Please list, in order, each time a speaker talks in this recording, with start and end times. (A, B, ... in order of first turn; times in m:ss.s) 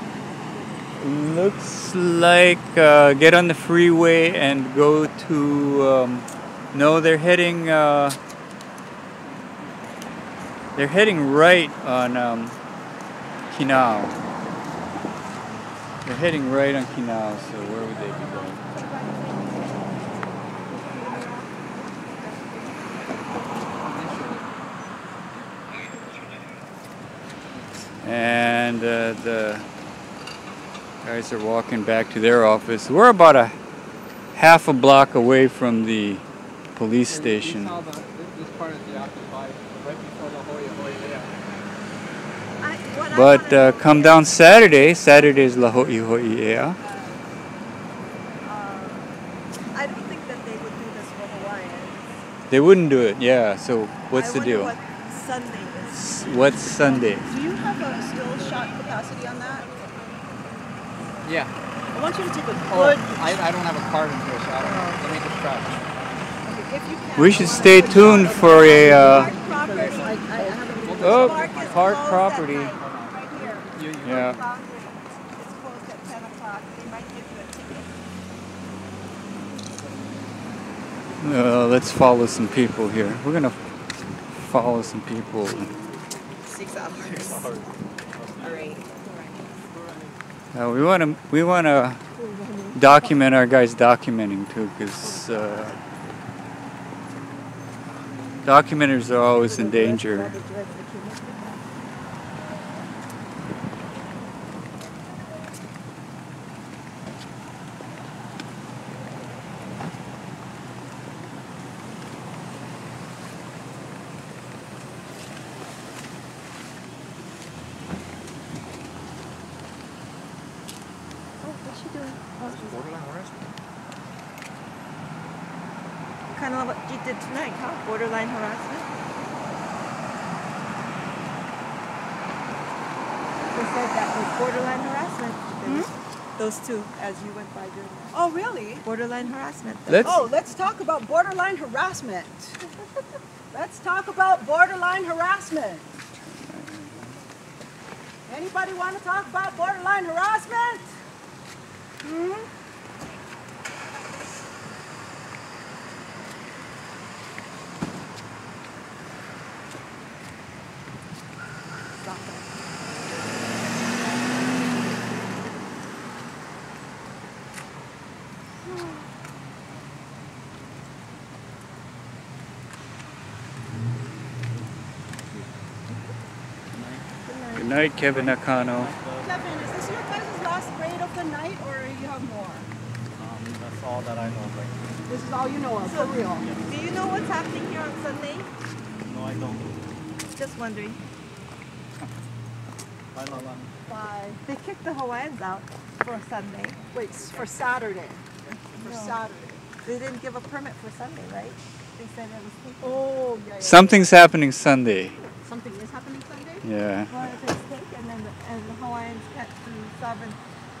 0:01.0-0:08.2 A
0:10.8-0:12.5 A
0:13.5-0:14.1 A
0:16.0-0:18.6 A
0:18.6-0:19.8 B
0:20.7-0:23.0 B
0:23.8-0:24.5 C
0:27.4-0:27.9 C
0:28.0-0:29.7 A
0:31.0-0:33.6 A
0:34.3-0:36.2 A
0:36.7-0:37.8 A
0:37.1-0:41.3 C
0:42.6-0:44.7 B
0:43.1-0:46.8 A
0:48.4-0:49.1 B
0:49.7-0:52.1 B
0:52.5-0:54.7 A
0:54.1-0:56.2 B
0:55.9-0:57.3 A
0:57.0-0:59.7 D
1:01.2-1:01.5 C
1:01.9-1:03.2 D
1:02.7-1:05.8 C
1:04.7-1:05.0 D
1:06.5-1:11.5 D
1:07.2-1:09.3 A
1:07.7-1:10.4 B
1:10.8-1:11.8 C
1:10.9-1:17.9 B
1:11.0-1:12.7 A
1:12.8-1:13.1 C
1:13.7-1:14.4 C
1:14.0-1:14.4 A
1:21.2-1:23.6 A
1:24.3-1:25.7 A
1:26.4-1:27.5 B
1:28.4-1:29.5 B
1:30.5-1:32.0 A
1:32.2-1:32.8 D
1:32.7-1:35.8 A
1:38.4-1:40.3 A
1:39.4-1:41.5 D
2:01.8-2:02.2 B
2:02.5-2:03.3 E
2:06.3-2:08.9 B
2:13.5-2:14.1 D
2:14.0-2:18.2 B
2:15.6-2:15.9 D
2:18.1-2:18.8 D
2:18.8-2:20.2 B
2:19.9-2:20.2 A
2:20.0-2:22.6 D
2:23.5-2:25.9 D
2:26.4-2:27.1 A
2:28.3-2:30.9 D
2:32.0-2:32.4 B
2:42.0-2:42.6 B
2:56.7-2:57.0 E
2:57.6-2:58.9 A
2:58.0-2:59.6 E
2:59.2-3:02.7 D
3:03.2-3:05.0 E
3:05.1-3:06.5 D
3:05.8-3:08.5 B
3:06.4-3:06.8 E
3:09.0-3:09.8 E
3:10.3-3:11.0 B
3:13.1-3:13.7 E
3:13.8-3:14.4 D
3:14.4-3:16.8 B
3:16.9-3:18.2 D
3:18.5-3:19.2 B
3:18.8-3:19.6 D
3:19.8-3:23.1 B
3:22.8-3:24.1 D
3:23.6-3:25.2 A
3:25.5-3:26.3 D
3:25.6-3:30.4 B
3:26.6-3:27.3 A